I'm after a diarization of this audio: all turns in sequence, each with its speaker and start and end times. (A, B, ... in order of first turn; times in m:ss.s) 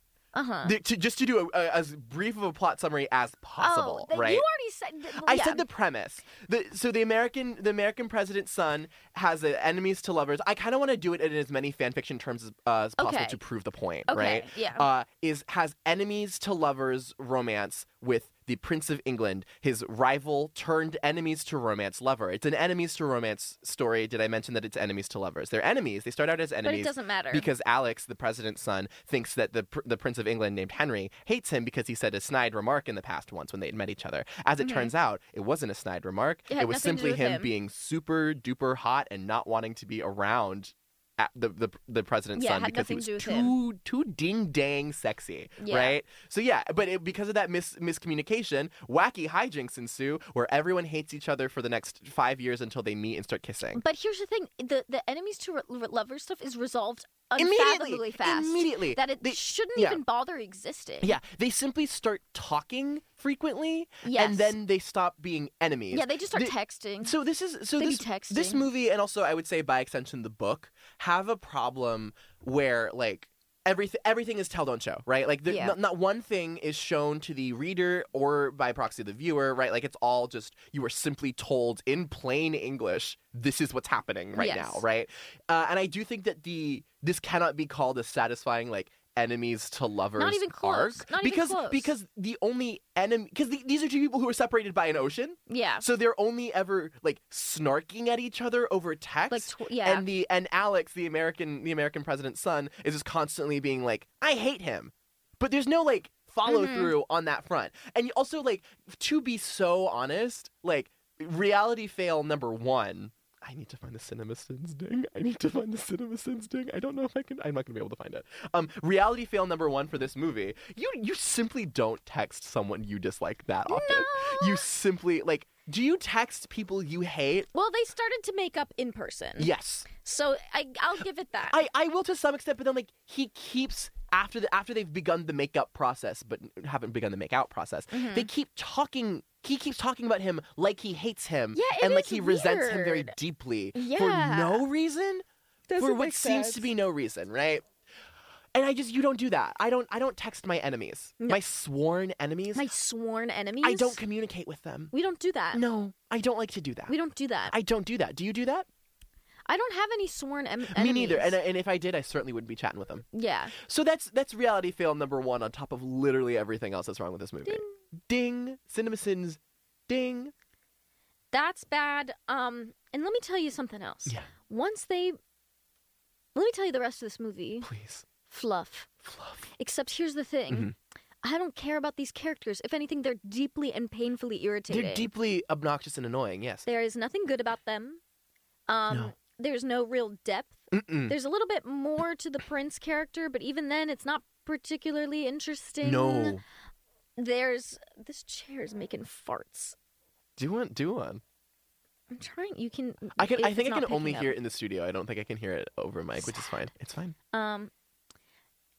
0:00.3-0:00.8 A
0:00.6-0:04.4 B
0:03.6-0:05.6 A
0:05.2-0:53.8 B
0:13.0-0:13.4 A
0:14.1-0:14.9 A
0:26.6-0:27.5 A
0:34.6-0:34.9 A
0:36.5-0:37.5 A
0:42.3-0:43.5 A
0:45.6-0:46.0 A
0:53.7-1:01.2 A
0:57.4-1:00.0 B
1:01.0-2:07.5 B
1:04.0-1:04.5 A
1:05.9-1:07.2 A
1:07.8-1:08.6 A
1:15.5-1:15.8 A
1:24.3-1:24.8 A
1:30.2-1:31.9 A
1:35.5-1:35.9 A
1:39.3-1:40.1 A
1:46.4-1:46.9 A
2:03.6-2:04.6 A
2:07.5-2:11.6 A
2:09.4-2:09.9 B
2:11.5-2:25.2 B
2:17.9-2:18.3 A
2:21.5-2:23.1 A
2:23.7-2:24.6 A
2:25.7-2:26.7 A
2:25.8-2:27.6 B
2:28.5-2:32.7 B
2:32.5-2:34.0 A
2:33.6-2:34.9 B
2:34.9-2:35.6 A
2:35.5-2:36.9 B
2:36.9-2:37.5 A
2:37.5-2:38.7 B
2:39.5-2:41.3 A
2:40.7-2:50.3 B
2:43.1-2:43.5 A
2:47.4-2:47.7 A
2:51.3-2:55.2 A
2:56.3-2:57.7 A
2:57.6-2:58.0 B
2:58.2-2:58.9 A
2:59.0-2:59.4 B
2:59.6-3:00.7 A
3:00.5-3:00.7 B
3:01.2-3:05.1 A
3:04.7-3:06.6 B
3:06.6-3:08.0 A
3:08.7-3:16.4 A
3:10.7-3:11.2 B
3:15.8-3:16.4 B
3:17.2-3:19.8 A
3:20.4-3:21.2 B
3:22.1-3:24.3 A
3:23.2-3:27.2 B
3:27.3-3:27.7 A